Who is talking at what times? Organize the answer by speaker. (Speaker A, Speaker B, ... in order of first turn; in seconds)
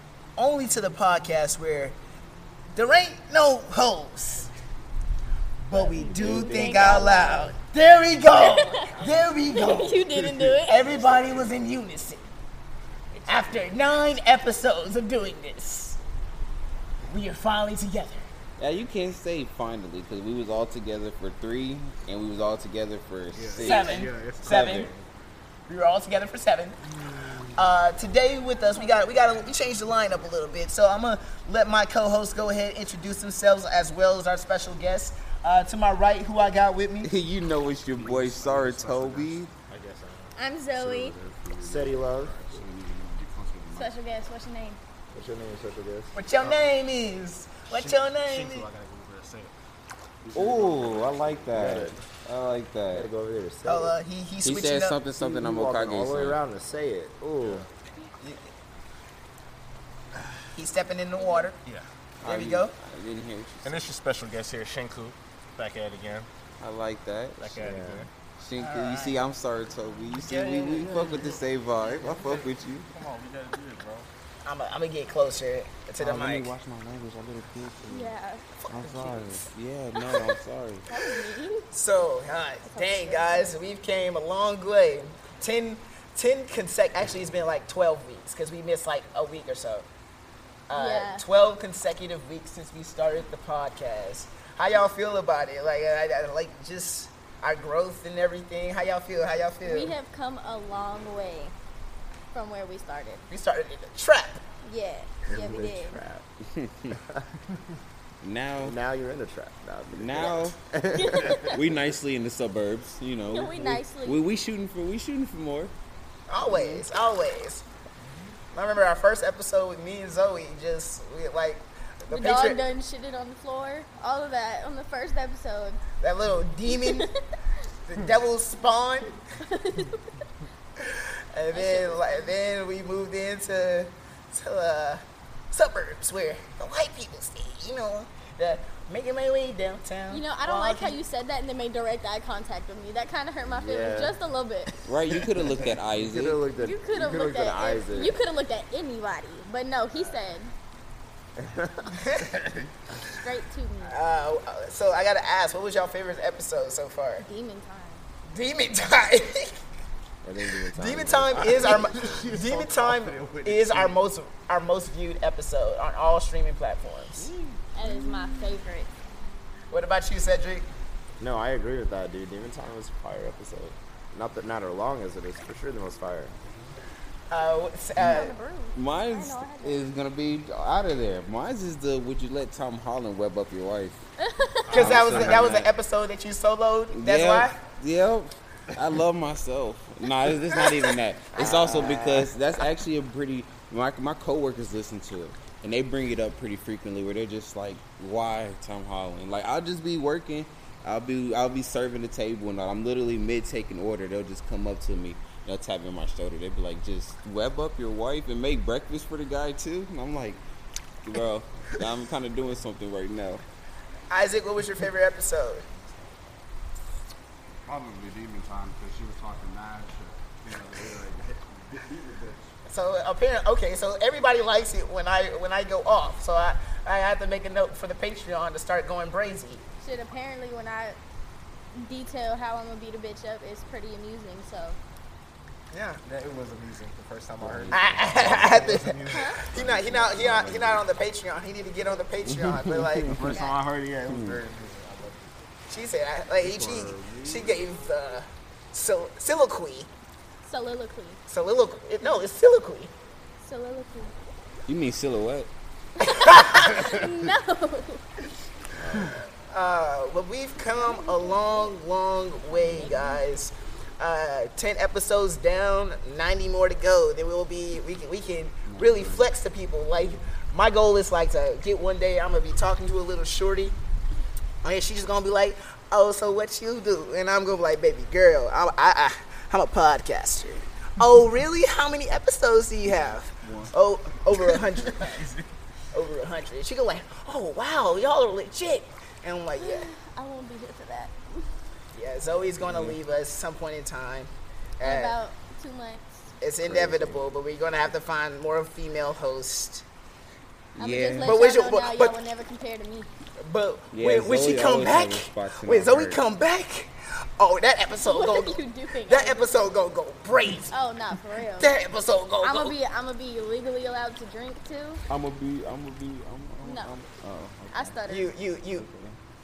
Speaker A: 0.4-2.0, 2.7-4.5, 5.6-12.2, 13.3-16.0, 17.1-18.2, 23.6-24.9, 25.7-26.8, 27.5-37.1, 46.1-48.7, 53.6-55.0, 60.5-61.6, 62.2-62.7, 68.6-69.2, 70.2-71.0, 74.4-76.5, 78.6-79.4, 81.7-89.9, 90.7-99.9, 103.3-104.4, 116.3-117.6, 118.5-122.6, 126.0-127.1, 127.9-129.2, 130.8-141.0, 152.0-152.3, 153.9-157.2, 158.3-159.6, 160.5-167.3, 169.7-170.7, 177.3-178.4, 184.7-187.6, 191.3-192.3, 214.1-215.7, 222.7-229.6, 235.7-236.0, 237.7-243.3, 245.7-249.9, 251.3-252.9, 256.1-256.8, 259.5-273.8, 274.6-285.2, 285.9-289.9, 291.9-295.2, 296.4-299.8, 301.2-302.1, 303.4-310.8, 311.6-312.8, 318.1-318.9
Speaker B: 5.7-7.6, 41.6-42.5, 45.1-46.2, 51.5-52.0, 52.9-53.9, 55.2-57.7, 67.5-68.1, 105.2-106.2, 106.9-107.2, 108.6-111.7, 143.5-144.2, 145.5-148.2, 151.4-151.9, 160.2-162.2, 171.2-176.3, 191.6-191.9, 296.6-297.3
Speaker C: 6.2-7.5, 8.3-8.9, 9.5-10.8, 28.7-29.1, 40.4-41.2, 43.7-44.8, 61.2-61.5, 77.9-78.4, 80.0-80.3, 80.9-81.7, 82.6-83.6, 90.7-91.2, 99.6-101.5, 102.3-103.2, 104.6-106.0, 111.0-111.6, 113.3-114.2, 122.1-125.8, 126.7-127.2, 129.4-130.1, 131.5-132.3, 140.1-144.7, 146.6-150.5, 153.0-153.9, 157.2-158.0, 167.8-168.9, 178.0-179.8, 184.2-184.9, 191.4-191.7, 229.8-231.0, 231.8-234.8, 239.1-239.4, 250.4-251.2, 253.4-254.1, 256.0-258.0, 260.6-261.8, 262.5-263.2, 289.6-291.5, 294.8-296.2, 300.8-303.1, 308.0-309.5, 310.7-311.7, 312.4-315.0, 316.6-317.0, 317.7-318.4
Speaker D: 11.0-11.4, 23.3-25.0, 38.0-42.6, 46.3-46.7, 47.7-49.5, 50.3-51.4, 57.4-57.7, 63.6-66.3, 67.4-68.1, 70.7-74.1, 161.3-164.0, 184.7-185.5, 236.1-239.4, 243.1-245.3, 246.6-247.5, 285.0-285.4
Speaker E: 18.6-24.9, 37.0-39.5, 50.3-53.1, 54.4-56.4, 62.2-63.8, 66.6-67.7, 68.4-72.9, 76.0-78.1, 78.7-80.9, 106.5-107.0, 108.2-108.8, 109.9-110.6, 111.4-115.7, 116.5-116.8, 144.9-146.4, 167.2-167.6, 178.7-184.0, 184.7-185.7, 186.9-210.4, 211.0-213.4, 237.4-238.7, 239.5-240.9, 242.2-243.4, 244.1-244.4, 254.7-255.5, 292.6-292.9, 300.8-301.4, 303.9-306.2, 315.1-318.0, 318.8-319.1
Speaker F: 38.5-39.0, 41.5-43.9, 217.7-222.5, 268.8-269.2